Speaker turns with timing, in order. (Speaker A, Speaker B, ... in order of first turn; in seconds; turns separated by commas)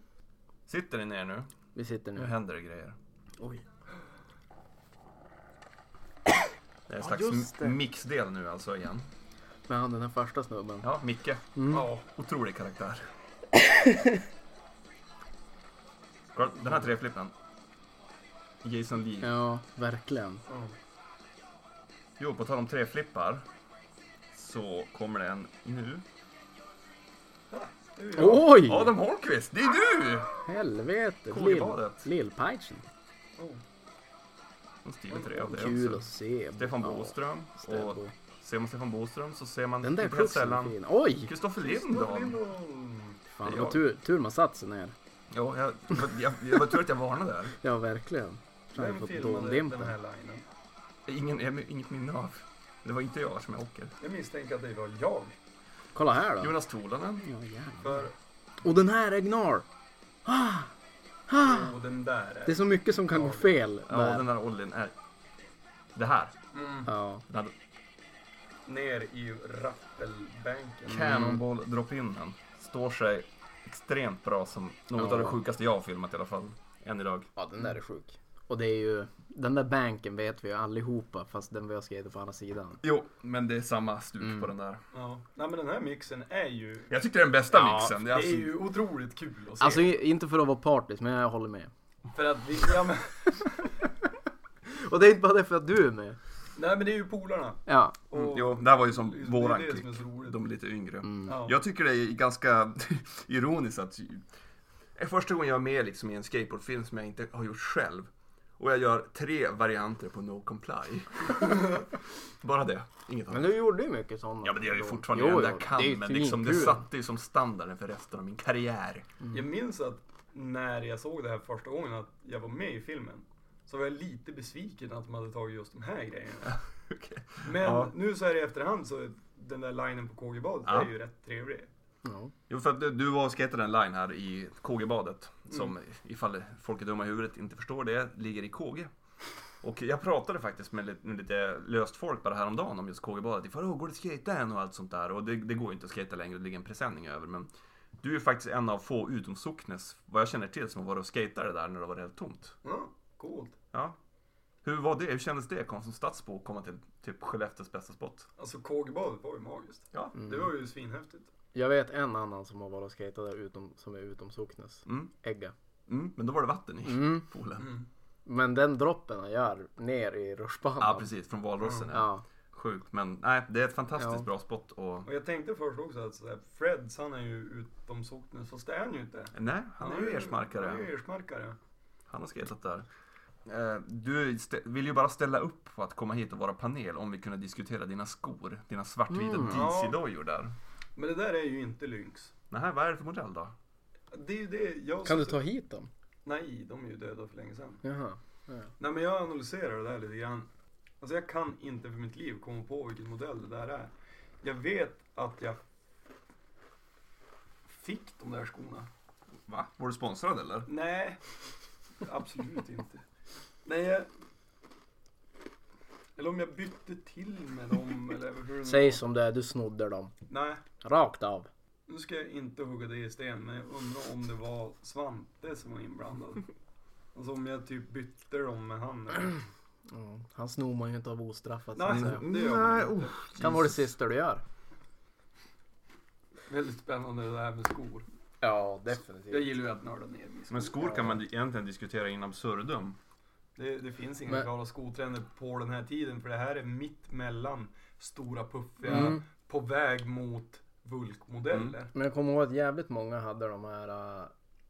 Speaker A: 0.7-1.5, Speaker B: 1.8-2.3, Speaker A: 2.2-3.0, Speaker B: 3.4-3.6, Speaker A: 6.9-9.1, Speaker B: 7.0-7.8, Speaker B: 9.7-11.0, Speaker A: 10.8-13.1, Speaker B: 11.6-11.9, Speaker C: 11.7-12.1, Speaker B: 13.6-14.2, Speaker A: 16.4-17.3, Speaker A: 18.6-19.3, Speaker B: 19.2-20.4, Speaker C: 20.5-20.7, Speaker A: 22.2-23.5, Speaker A: 24.3-26.0, Speaker C: 27.5-28.6, Speaker B: 28.2-28.9, Speaker A: 28.6-30.4, Speaker B: 30.4-32.9, Speaker A: 31.3-32.1, Speaker A: 34.9-42.4, Speaker C: 35.1-35.5, Speaker B: 35.4-38.1, Speaker B: 39.8-41.3, Speaker C: 41.6-43.2, Speaker B: 43.3-45.0, Speaker A: 43.4-43.8, Speaker A: 45.3-47.6, Speaker B: 47.6-49.9, Speaker C: 48.8-50.5, Speaker A: 51.1-53.9, Speaker C: 54.0-55.4, Speaker B: 55.9-56.5, Speaker A: 56.4-57.2, Speaker B: 57.2-58.1, Speaker C: 57.8-58.1, Speaker B: 58.6-59.7, Speaker B: 60.2-60.7, Speaker B: 61.3-61.8, Speaker C: 61.4-63.5, Speaker B: 62.5-64.3, Speaker A: 63.9-65.0, Speaker A: 66.0-66.4, Speaker C: 66.5-66.9, Speaker B: 66.9-67.2, Speaker A: 67.3-67.5, Speaker C: 68.7-71.3, Speaker A: 70.9-77.3, Speaker B: 71.0-71.4, Speaker B: 75.0-75.4, Speaker B: 77.4-82.8, Speaker A: 82.8-84.8, Speaker C: 84.9-86.9, Speaker A: 86.9-88.6, Speaker B: 87.5-87.9, Speaker C: 87.8-90.0, Speaker B: 89.6-91.7, Speaker C: 92.1-93.5, Speaker B: 94.7-96.2, Speaker C: 96.6-100.4, Speaker B: 97.7-98.0, Speaker A: 98.1-104.2, Speaker B: 101.0-101.3, Speaker C: 101.3-101.6, Speaker A: 105.0-113.6, Speaker B: 113.3-116.8, Speaker A: 114.4-119.1, Speaker C: 119.3-126.6, Speaker A: 126.5-127.9, Speaker C: 127.4-131.7, Speaker A: 130.7-130.9, Speaker B: 132.0-132.3, Speaker A: 132.5-138.9, Speaker A: 139.6-147.5, Speaker A: 148.0-152.6, Speaker C: 152.6-153.6, Speaker A: 153.7-154.0, Speaker A: 154.6-158.3, Speaker C: 158.4-161.3, Speaker B: 160.2-160.5, Speaker B: 161.5-165.5, Speaker A: 164.9-165.1, Speaker A: 165.9-167.7, Speaker B: 166.8-167.3, Speaker C: 167.6-167.9, Speaker B: 168.3-171.1, Speaker A: 170.8-175.1, Speaker B: 171.9-172.2, Speaker B: 174.0-174.2, Speaker C: 175.1-181.6, Speaker A: 179.3-180.9, Speaker A: 182.1-182.9, Speaker A: 183.5-190.6, Speaker B: 189.1-189.7, Speaker C: 189.5-190.0, Speaker C: 191.0-192.3, Speaker A: 192.5-193.5, Speaker C: 194.1-195.4, Speaker B: 195.1-195.9, Speaker C: 196.2-197.8, Speaker B: 197.8-198.7, Speaker C: 198.8-200.5, Speaker C: 201.0-205.6, Speaker C: 207.7-208.9, Speaker A: 209.5-210.7, Speaker C: 210.7-211.2, Speaker C: 212.0-213.0, Speaker C: 213.7-214.1, Speaker C: 216.2-219.0, Speaker B: 218.6-220.1, Speaker C: 220.3-220.6, Speaker B: 220.8-221.5, Speaker C: 221.9-226.5, Speaker C: 227.2-229.4, Speaker B: 229.9-232.2, Speaker C: 231.8-233.2, Speaker A: 231.9-233.9, Speaker B: 233.4-234.4, Speaker C: 236.5-238.1, Speaker B: 238.4-239.6, Speaker C: 239.3-241.1, Speaker A: 240.5-243.0, Speaker C: 243.6-251.9, Speaker B: 248.9-249.2, Speaker A: 251.5-251.8, Speaker B: 251.9-254.3